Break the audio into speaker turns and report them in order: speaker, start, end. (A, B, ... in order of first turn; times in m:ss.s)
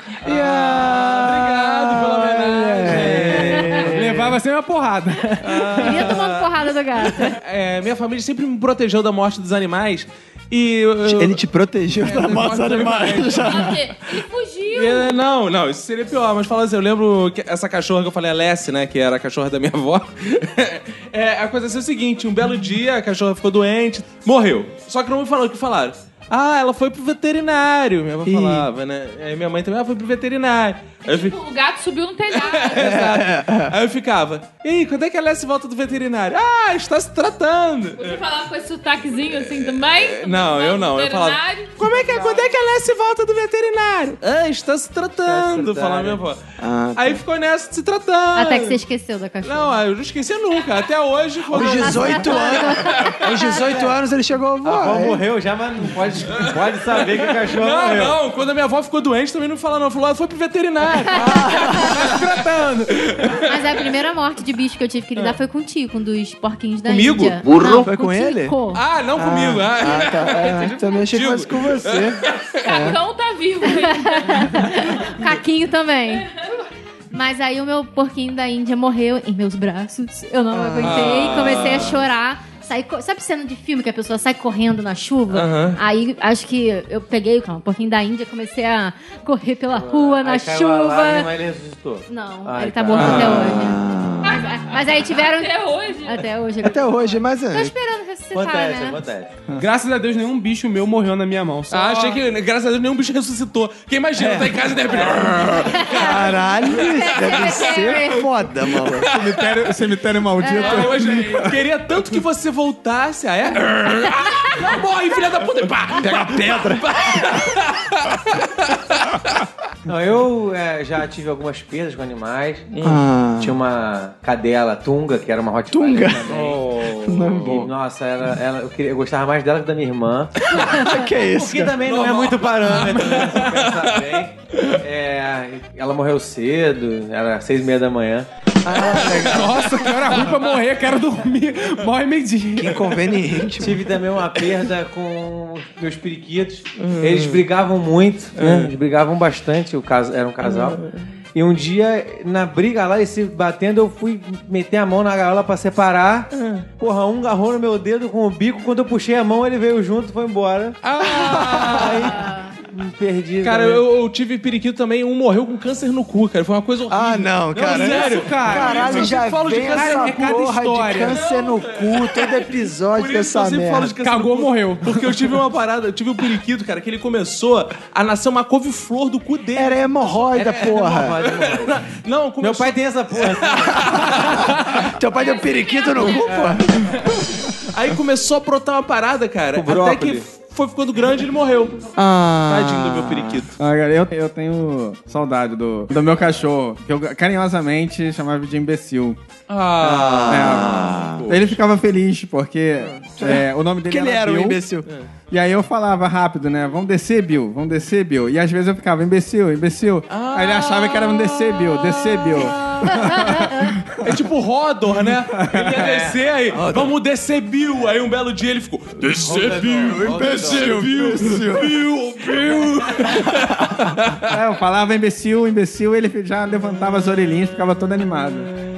0:00.2-0:03.9 A
0:00.2-0:04.2 B
0:02.8-0:06.0 C
0:03.1-0:04.3 D
0:05.4-0:11.4 A
0:05.8-0:07.4 E
0:11.0-0:13.8 B
0:12.0-0:13.4 C
0:12.1-0:13.2 A
0:13.4-0:15.1 F
0:14.7-0:31.4 A
0:28.2-0:28.7 B
0:31.0-0:32.8 F
0:32.3-0:38.2 A
0:32.8-0:33.7 B
0:38.0-0:41.9 F
0:39.3-0:46.4 A
0:45.2-0:46.2 D
0:46.6-0:47.2 B
0:47.0-0:48.8 A
0:48.3-0:49.8 E
0:49.4-0:53.3 A
0:51.5-0:55.2 B
0:51.6-0:53.6 E
0:53.5-0:53.9 D
0:54.6-0:58.2 D
0:57.4-1:02.2 A
1:01.0-1:01.6 E
1:01.1-1:01.9 B
1:01.8-1:03.0 C
1:03.0-1:03.4 A
1:03.4-1:08.8 E
1:06.8-1:07.6 A
1:07.5-1:08.6 B
1:08.7-1:13.0 A
1:09.2-1:13.0 B
1:12.6-1:14.7 F
1:13.6-1:16.3 E
1:17.1-1:31.3 E
1:20.5-1:21.4 B
1:20.8-1:22.0 A
1:25.3-1:25.8 A
1:29.7-1:33.6 D
1:32.1-1:39.0 E
1:33.0-1:33.6 A
1:33.0-1:34.4 B
1:34.2-1:36.3 F
1:36.6-1:37.7 B
1:38.3-1:39.3 D
1:39.6-1:42.2 C
1:41.7-1:48.2 A
1:44.2-1:44.6 B
1:45.6-1:48.3 E
1:46.0-1:49.1 B
1:47.5-1:47.8 F
1:48.7-1:49.5 A
1:49.0-1:51.6 G
1:50.4-1:50.9 E
1:50.5-1:59.2 A
1:55.9-1:57.2 B
1:59.8-2:02.7 D
2:02.7-2:03.0 A
2:02.8-2:03.6 B
2:03.4-2:06.7 D
2:05.7-2:06.3 B
2:06.3-2:07.6 A
2:07.0-2:07.7 B
2:07.3-2:18.3 D
2:10.5-2:11.8 B
2:11.8-2:14.2 A
2:18.6-2:19.6 B
2:18.8-2:20.5 A
2:19.1-2:23.0 C
2:22.6-2:23.9 B
2:23.6-2:30.8 D
2:26.8-2:27.4 A
2:28.4-2:28.7 A
2:30.4-2:31.0 A
2:31.3-2:36.3 D
2:36.3-2:36.6 A
2:36.8-2:40.8 D
2:40.8-2:42.3 A
2:41.0-2:42.1 B
2:41.7-2:42.1 D
2:41.8-2:42.5 E
2:42.6-2:43.8 D
2:43.4-2:50.5 A
2:46.9-2:54.0 B
2:47.6-2:51.2 C
2:51.1-3:04.9 A
2:54.0-2:55.4 C
2:59.5-3:01.2 B
3:00.3-3:01.8 D
3:02.4-3:04.5 D
3:04.8-3:07.0 B
3:05.2-3:06.4 F
3:06.2-3:06.6 D
3:06.8-3:11.8 A
3:09.5-3:10.2 D
3:12.0-3:13.4 B
3:12.4-3:13.5 A
3:13.6-3:19.2 G
3:19.5-3:21.6 A
3:19.8-3:21.2 B
3:20.3-3:24.6 G
3:23.2-3:24.9 B
3:25.3-3:34.1 G
3:30.1-3:33.2 A
3:33.0-3:33.5 E
3:34.0-3:44.3 A
3:35.3-3:35.8 G
3:35.5-3:36.2 D
3:36.5-3:36.9 B
3:39.2-3:40.9 D
3:40.0-3:41.8 B
3:44.2-3:48.5 G